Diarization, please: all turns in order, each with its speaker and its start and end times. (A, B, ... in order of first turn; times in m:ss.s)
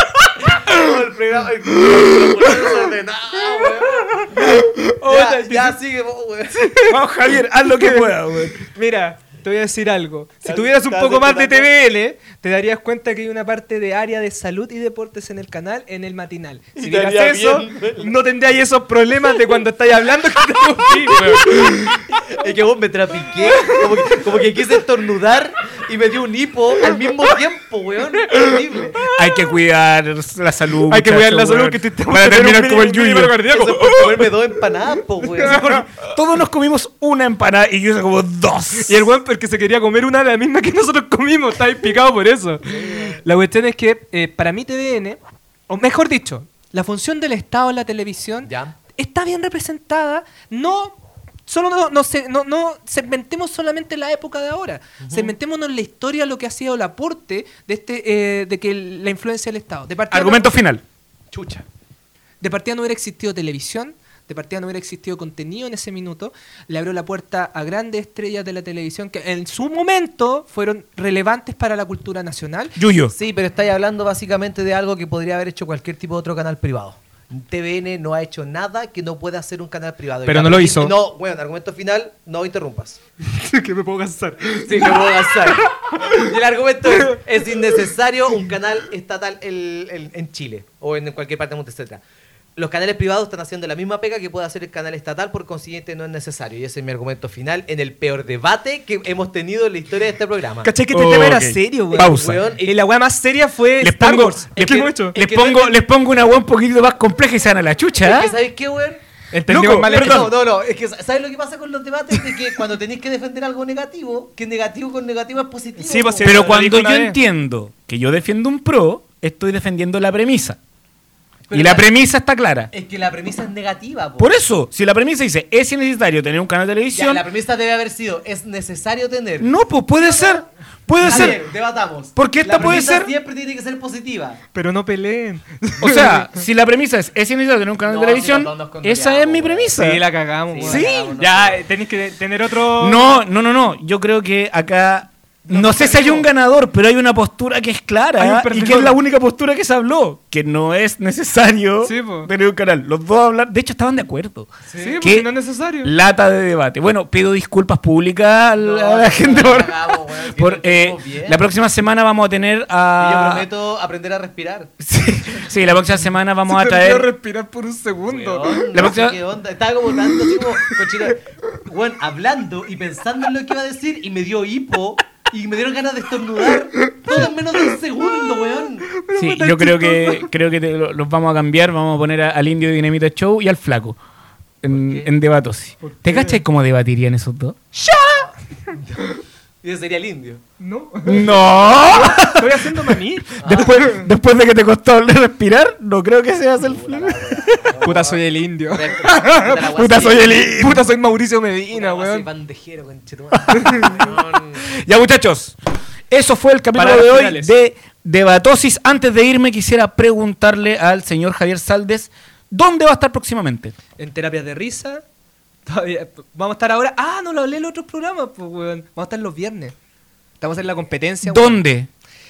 0:00.4-0:06.8 A
0:04.4-0:05.8 B
0:06.9-0:08.6 C
0:07.8-0:08.1 B
0:08.6-0:22.1 B
0:10.4-0:11.7 A
0:16.8-0:18.1 A
0:22.3-0:29.1 A
0:29.1-0:33.4 C
0:30.8-0:35.8 B
0:33.5-0:35.9 A
0:36.0-0:39.1 C
0:38.8-1:00.6 B
0:42.6-0:43.2 A
0:48.4-0:48.8 A
0:55.0-0:55.4 A
1:00.1-1:00.8 C
1:01.3-1:01.7 A
1:02.4-1:12.8 B
1:12.8-1:13.1 C
1:13.1-1:23.0 A
1:20.2-1:20.9 B
1:23.3-1:26.2 B
1:24.7-1:32.0 A
1:32.6-1:40.7 A
1:40.6-1:45.2 B
1:40.9-1:42.4 C
1:41.9-1:42.8 A
1:43.8-1:44.5 C
1:44.6-1:45.8 A
1:45.2-1:48.3 C
1:48.0-1:49.0 A
1:49.3-1:50.3 B
1:49.5-1:50.2 C
1:49.8-1:56.6 A
1:55.8-1:57.2 B
1:56.2-2:00.6 C
2:01.5-2:01.9 A
2:01.5-2:02.7 C
2:02.7-2:04.3 A
2:04.2-2:07.2 C
2:06.9-2:10.4 A
2:09.4-2:11.4 C
2:11.0-2:14.4 A
2:11.0-2:11.4 B
2:12.2-2:13.1 C
2:14.5-2:16.3 B
2:15.8-2:20.0 C
2:17.8-2:19.8 A
2:19.8-2:23.2 B
2:20.5-2:21.6 A
2:20.6-2:21.1 C
2:22.8-2:35.3 C
2:25.5-2:26.3 B
2:25.6-2:26.1 A
2:28.2-2:29.0 B
2:31.8-2:32.3 B
2:34.7-2:35.0 A
2:34.8-2:35.9 B
2:35.8-2:43.5 C
2:38.6-2:41.5 A
2:43.0-2:44.7 A
2:44.8-2:47.1 C
2:46.5-2:48.6 B
2:48.1-2:58.9 A
2:48.7-2:49.2 C
2:50.0-2:50.8 B
2:56.8-3:00.3 B
2:59.2-3:04.0 C
3:04.6-3:07.6 C
3:04.7-3:05.1 A
3:05.8-3:06.4 B
3:07.9-3:08.3 B
3:08.1-3:09.1 A
3:09.6-3:10.4 A
3:10.6-3:14.0 B
3:11.1-3:12.5 C
3:13.4-3:13.8 A
3:13.4-3:17.7 C
3:16.6-3:20.4 A
3:17.8-3:19.6 B
3:19.7-3:20.9 C
3:20.3-3:22.3 B
3:21.7-3:24.6 A
3:23.3-3:25.6 C
3:23.5-3:24.0 B
3:26.1-3:33.8 C
3:26.7-3:27.5 B
3:34.0-3:35.0 B
3:35.7-3:39.8 B
3:40.4-3:41.6 B
3:41.2-3:41.9 C